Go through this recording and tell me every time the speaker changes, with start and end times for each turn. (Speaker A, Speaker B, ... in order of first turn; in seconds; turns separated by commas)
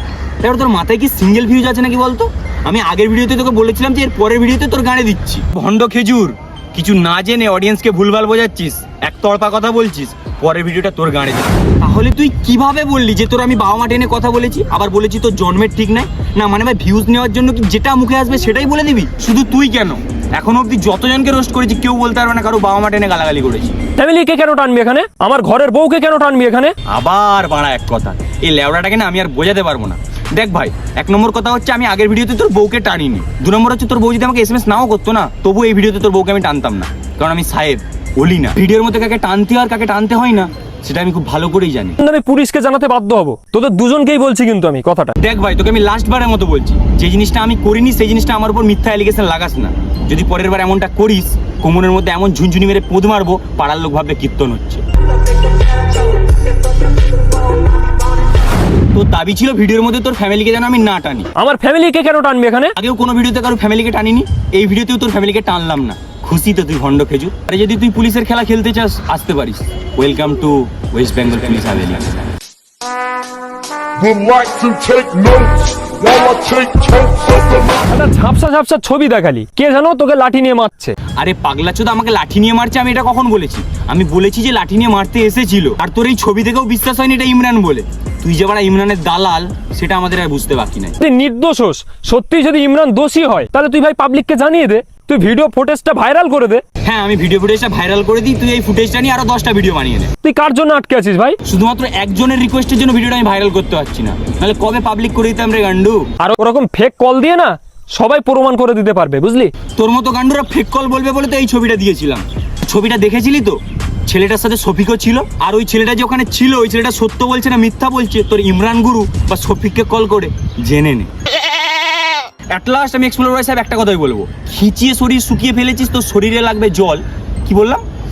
Speaker A: 0.4-23.8, Speaker B: 24.0-26.8, Speaker A: 26.9-42.0, Speaker B: 42.0-45.2, Speaker A: 45.2-54.8, Speaker A: 58.9-61.3, Speaker B: 61.4-62.7, Speaker A: 62.8-72.3, Speaker C: 74.0-77.4, Speaker B: 77.9-81.0, Speaker A: 81.2-91.0, Speaker B: 91.0-96.6, Speaker A: 96.8-100.1, Speaker B: 100.2-101.4, Speaker A: 101.4-106.0, Speaker B: 106.2-109.5, Speaker A: 109.8-121.1, Speaker A: 122.5-127.8